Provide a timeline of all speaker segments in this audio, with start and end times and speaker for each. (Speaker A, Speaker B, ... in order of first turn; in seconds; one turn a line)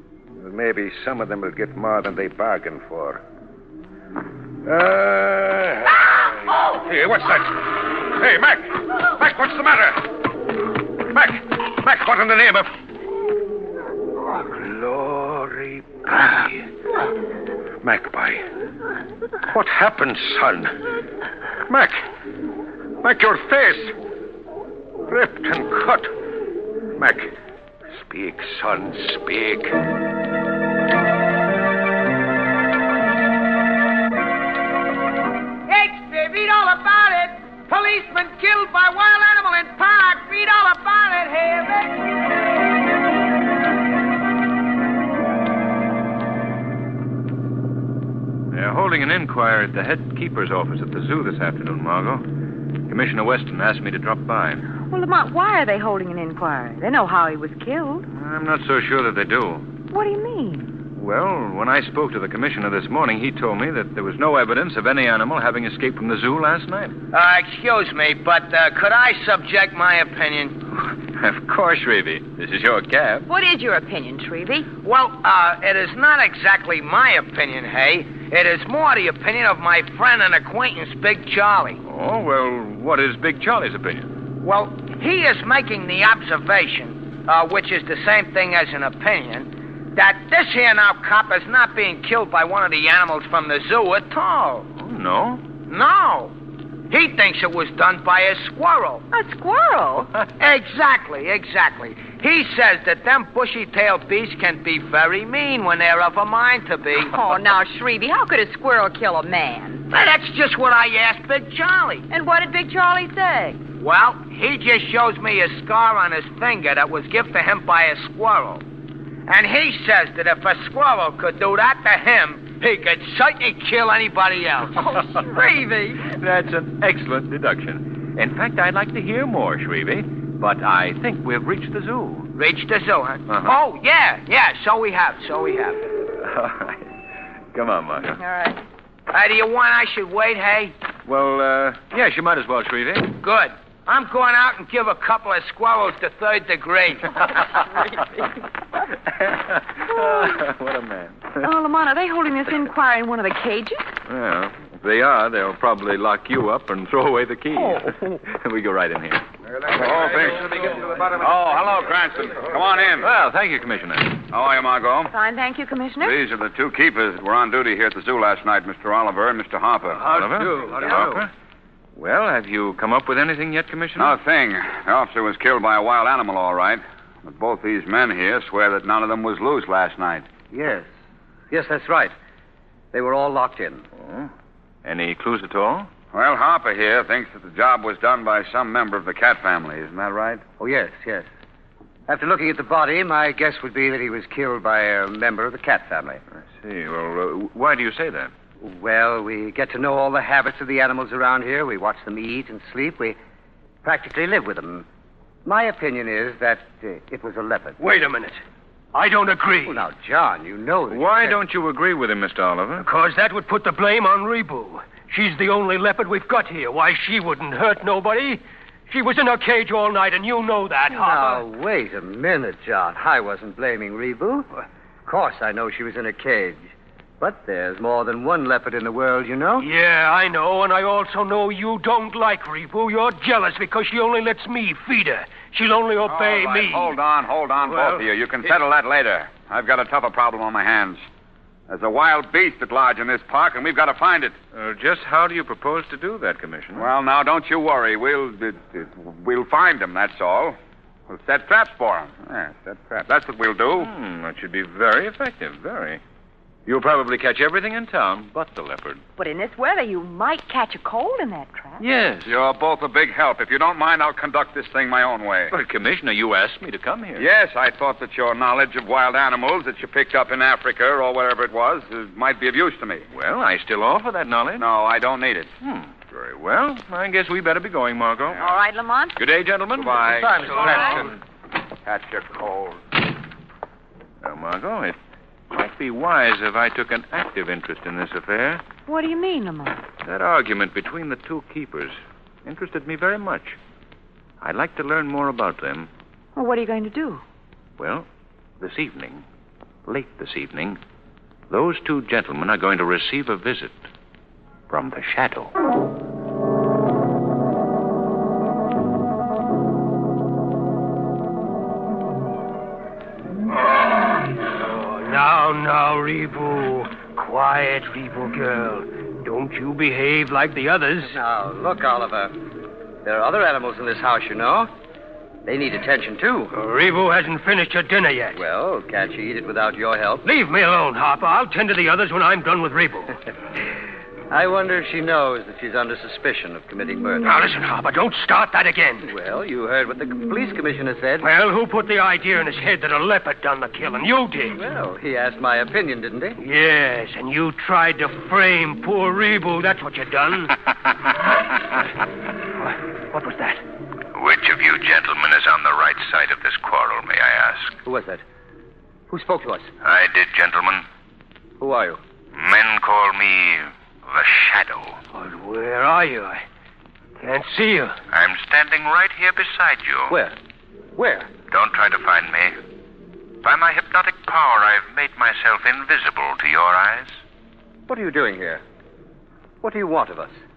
Speaker A: 0.4-3.2
Speaker A: 4.7-10.1
Speaker A: 11.1-12.7
Speaker A: 14.3-16.7
Speaker A: 17.8-18.4
Speaker A: 19.5-20.8
Speaker A: 21.7-22.1
Speaker A: 23.0-23.9
Speaker A: 25.1-26.1
Speaker A: 26.9-27.3
Speaker A: 27.9-29.8
Speaker B: 35.7-42.1
Speaker C: 48.5-52.2
Speaker C: 52.9-54.6
Speaker D: 54.9-58.1
Speaker C: 58.1-59.6
Speaker D: 59.9-60.8
Speaker C: 61.0-67.0
Speaker B: 67.1-70.6
Speaker C: 70.8-73.3
Speaker D: 73.3-74.7
Speaker B: 74.8-81.8
Speaker C: 81.8-84.1
Speaker B: 84.4-94.7
Speaker C: 94.8-95.4
Speaker B: 95.7-96.3
Speaker B: 96.9-99.0
Speaker D: 99.1-100.1
Speaker B: 100.4-107.2
Speaker D: 107.1-109.9
Speaker B: 109.9-112.0
Speaker D: 112.1-113.6
Speaker B: 113.8-118.6
Speaker B: 119.3-125.0
Speaker D: 124.8-126.0
Speaker C: 126.0-132.3
Speaker B: 132.3-135.8
Speaker C: 133.3-133.6
Speaker C: 136.2-136.9
Speaker C: 137.5-138.2
Speaker D: 138.2-138.6
Speaker B: 139.1-140.7
Speaker C: 141.1-143.1
Speaker B: 143.2-147.7
Speaker C: 149.1-151.5
Speaker D: 151.4-153.9
Speaker C: 154.1-159.2
Speaker D: 157.5-158.1
Speaker A: 159.7-161.7
Speaker E: 159.7-163.1
Speaker C: 163.0-164.2
Speaker E: 164.3-165.1
Speaker D: 165.1-166.2
Speaker E: 166.0-170.2
Speaker C: 170.1-171.3
Speaker F: 170.2-171.2
Speaker G: 170.6-171.2
Speaker C: 172.0-174.2
Speaker E: 174.0-180.3
Speaker G: 180.5-180.9
Speaker G: 181.5-182.1
Speaker G: 182.9-183.8
Speaker C: 184.0-184.3
Speaker C: 184.8-185.9
Speaker E: 186.1-190.4
Speaker G: 190.6-191.3
Speaker G: 192.1-196.2
Speaker C: 196.3-198.3
Speaker G: 198.6-203.2
Speaker G: 203.8-204.9
Speaker G: 205.4-207.8
Speaker F: 207.8-208.4
Speaker F: 208.9-209.8
Speaker G: 209.7-211.4
Speaker C: 210.9-212.9
Speaker F: 212.8-221.5
Speaker G: 220.9-224.5
Speaker G: 225.1-226.7
Speaker G: 227.2-229.7
Speaker F: 229.6-237.0
Speaker E: 236.1-241.0
Speaker F: 237.7-238.1
Speaker E: 241.7-244.4
Speaker C: 244.5-246.9
Speaker E: 246.8-250.6
Speaker E: 251.1-253.9
Speaker C: 253.8-256.0
Speaker C: 256.7-259.0
Speaker D: 259.2-261.8
Speaker C: 261.8-262.4
Speaker E: 262.3-265.5
Speaker C: 265.5-267.3
Speaker E: 267.2-273.1
Speaker C: 273.1-274.7
Speaker E: 274.6-275.5
Speaker C: 275.6-278.5
Speaker D: 278.4-279.2
Speaker C: 279.2-280.3
Speaker E: 279.7-281.1
Speaker G: 280.2-280.6
Speaker F: 280.4-281.1
Speaker E: 281.9-282.8
Speaker C: 284.2-285.0
Speaker C: 285.5-288.6
Speaker D: 288.9-289.8
Speaker C: 290.0-293.6
Speaker C: 294.4-295.9
Speaker D: 296.4-297.2
Speaker C: 297.8-298.1
Speaker C: 298.6-299.3
Speaker C: 299.9-300.8
Speaker C: 301.5-303.9
Speaker C: 304.7-305.5
Speaker F: 313.7-321.2
Speaker G: 321.0-322.4
Speaker G: 323.0-324.7
Speaker G: 325.4-326.5
Speaker F: 326.5-328.4
Speaker G: 328.3-330.2
Speaker F: 330.2-333.2
Speaker G: 334.3-337.3
Speaker F: 337.2-339.1
Speaker G: 339.1-341.3
Speaker F: 341.2-344.6
Speaker G: 344.5-346.4
Speaker F: 346.4-350.5
Speaker F: 352.6-353.6
Speaker C: 354.1-357.8
Speaker G: 357.9-358.2
Speaker G: 359.1-359.7
Speaker C: 359.8-360.9
Speaker G: 361.6-362.0
Speaker C: 362.3-365.0
Speaker F: 365.1-366.4
Speaker F: 367.2-368.0
Speaker C: 368.1-370.2
Speaker G: 370.1-370.4
Speaker G: 371.0-371.3
Speaker C: 371.5-372.6
Speaker C: 373.4-377.2
Speaker G: 377.9-378.6
Speaker G: 379.6-380.4